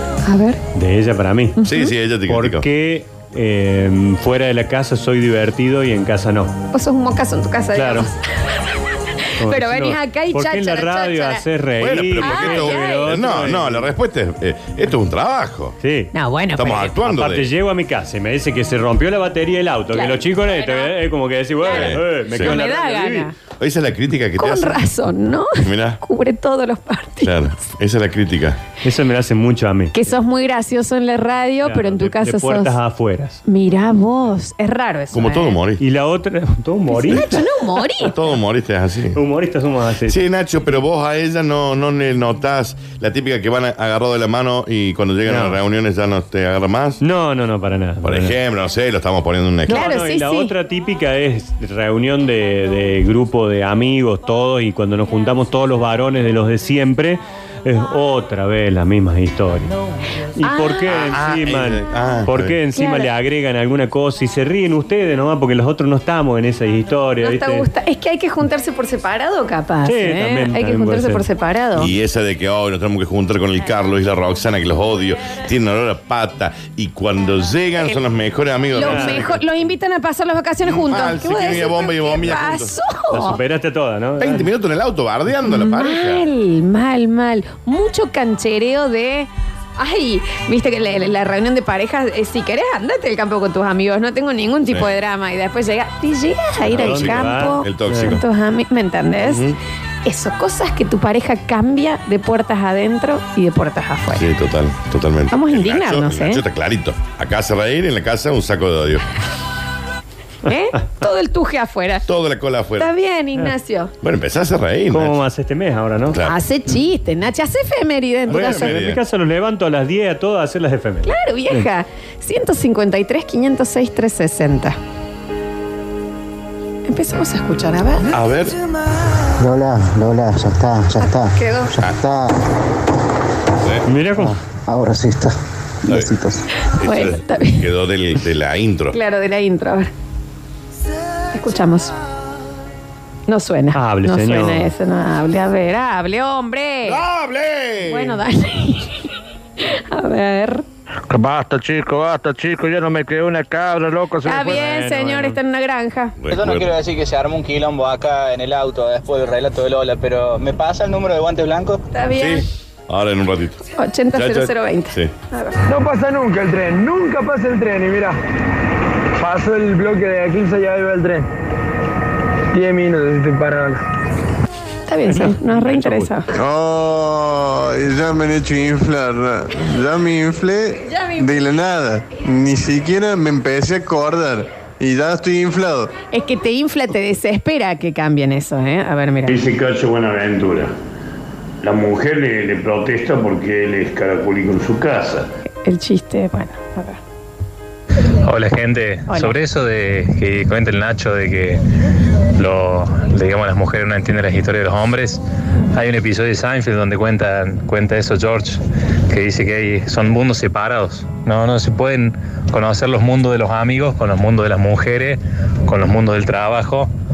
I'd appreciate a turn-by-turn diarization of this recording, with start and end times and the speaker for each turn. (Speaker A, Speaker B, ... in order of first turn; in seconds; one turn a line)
Speaker A: 0.2-0.6
Speaker B: 0.8-1.6
Speaker A: 1.6-1.9
Speaker C: 1.6-2.7
Speaker B: 2.3-6.5
Speaker A: 6.7-8.1
Speaker B: 7.8-8.1
Speaker B: 9.4-13.9
Speaker A: 9.4-11.4
Speaker C: 11.8-15.8
Speaker A: 12.2-13.1
Speaker B: 15.8-16.1
Speaker A: 16.1-16.9
Speaker C: 16.6-17.5
Speaker B: 17.0-23.3
Speaker A: 19.9-20.9
Speaker A: 21.6-23.3
Speaker C: 21.7-22.6
Speaker C: 23.5-24.8
Speaker A: 24.4-27.4
Speaker C: 25.6-26.0
Speaker C: 27.2-28.6
Speaker B: 28.8-30.1
Speaker A: 29.9-32.7
Speaker B: 31.6-33.4
Speaker A: 33.5-35.6
Speaker C: 35.1-35.8
Speaker B: 35.8-37.3
Speaker A: 36.9-38.2
Speaker C: 37.1-37.4
Speaker C: 38.0-39.2
Speaker B: 39.1-40.2
Speaker C: 40.1-47.0
Speaker B: 45.3-45.6
Speaker B: 47.0-48.4
Speaker C: 48.0-49.9
Speaker A: 49.7-50.5
Speaker B: 49.7-59.7
Speaker B: 60.4-67.7
Speaker A: 60.4-60.8
Speaker C: 60.9-62.6
Speaker A: 62.8-63.1
Speaker A: 67.2-71.9
Speaker B: 69.9-71.3
Speaker C: 71.8-79.3
Speaker A: 78.7-83.4
Speaker B: 78.8-79.3
Speaker C: 80.7-82.7
Speaker B: 83.1-84.5
Speaker C: 84.2-86.2
Speaker A: 85.5-99.5
Speaker C: 96.7-98.2
Speaker B: 96.7-98.2
Speaker C: 99.2-99.6
Speaker A: 100.0-104.2
Speaker C: 104.1-109.0
Speaker A: 105.3-106.4
Speaker A: 110.5-112.1
Speaker C: 112.1-112.9
Speaker A: 112.8-113.9
Speaker C: 114.0-115.2
Speaker B: 114.9-116.2
Speaker C: 116.1-116.4
Speaker A: 116.2-118.8
Speaker C: 118.3-119.0
Speaker B: 118.3-121.7
Speaker A: 121.0-124.8
Speaker A: 126.9-128.1
Speaker C: 128.1-128.6
Speaker D: 129.4-132.4
Speaker A: 131.0-131.7
Speaker C: 133.6-134.4
Speaker B: 133.9-134.3
Speaker D: 134.7-135.3
Speaker D: 135.9-136.4
Speaker A: 136.8-137.7
Speaker C: 136.8-139.0
Speaker A: 138.9-139.9
Speaker A: 141.3-141.9
Speaker A: 143.3-147.0
Speaker B: 143.7-144.7
Speaker C: 146.8-148.2
Speaker A: 147.8-149.0
Speaker A: 149.6-150.7
Speaker A: 154.2-156.2
Speaker B: 154.4-155.4
Speaker C: 156.2-156.8
Speaker E: 156.3-161.8
Speaker A: 161.9-162.4
Speaker C: 162.2-163.6
Speaker A: 163.8-165.6
Speaker C: 164.1-165.1
Speaker F: 165.7-168.2
Speaker F: 169.2-171.3
Speaker F: 172.5-173.8
Speaker A: 174.9-176.3
Speaker B: 175.1-176.1
Speaker G: 176.3-185.9
Speaker A: 180.9-181.3
Speaker A: 186.1-189.4
Speaker H: 189.3-190.7
Speaker H: 191.6-195.3
Speaker A: 195.6-197.0
Speaker I: 198.2-201.6
Speaker A: 199.1-199.4
Speaker I: 202.4-205.2
Speaker I: 205.7-216.9